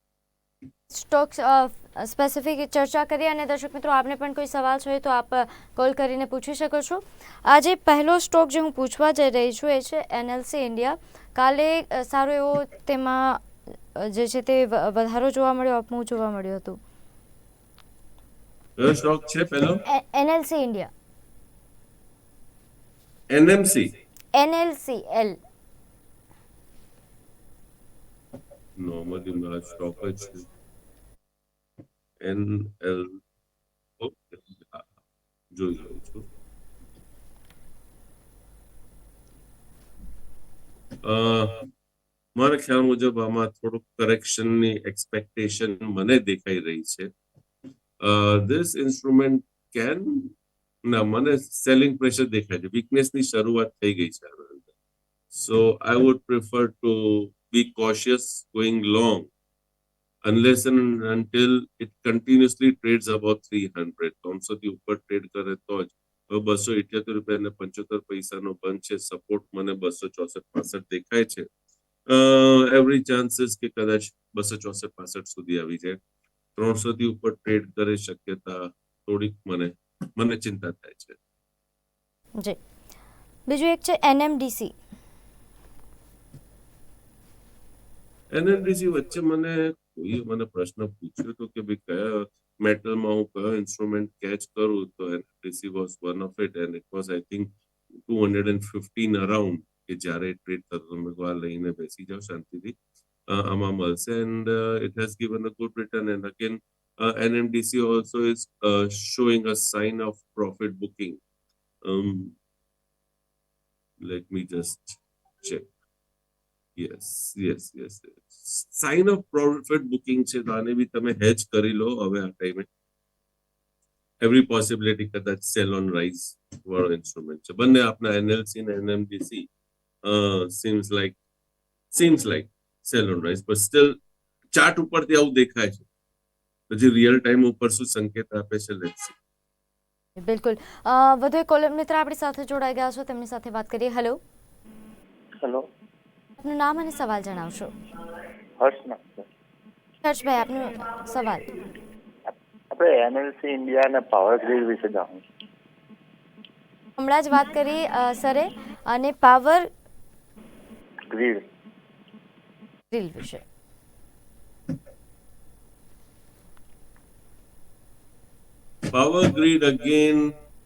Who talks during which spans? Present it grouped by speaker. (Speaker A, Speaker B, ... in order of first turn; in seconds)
Speaker A: 0.9-16.8, 19.8-20.9, 24.3-25.4, 83.5-84.7, 140.2-144.2, 146.4-147.7, 150.0-151.5, 157.0-159.7, 162.9-163.4
Speaker B: 18.8-19.8, 23.3-23.9, 28.8-30.5, 32.2-33.2, 34.0-34.9, 35.5-36.3, 41.0-41.6, 42.4-47.1, 48.0-50.3, 50.9-54.7, 55.3-59.3, 60.2-71.5, 72.1-76.0, 76.5-81.2, 88.3-97.5, 98.0-102.7, 103.3-111.2, 111.8-112.3, 114.0-115.7, 116.8-122.7, 124.2-129.5, 130.0-131.2, 131.9-133.9, 134.5-135.9, 136.7-139.1, 168.9-170.3
Speaker C: 148.6-149.2, 152.7-155.2, 161.1-161.4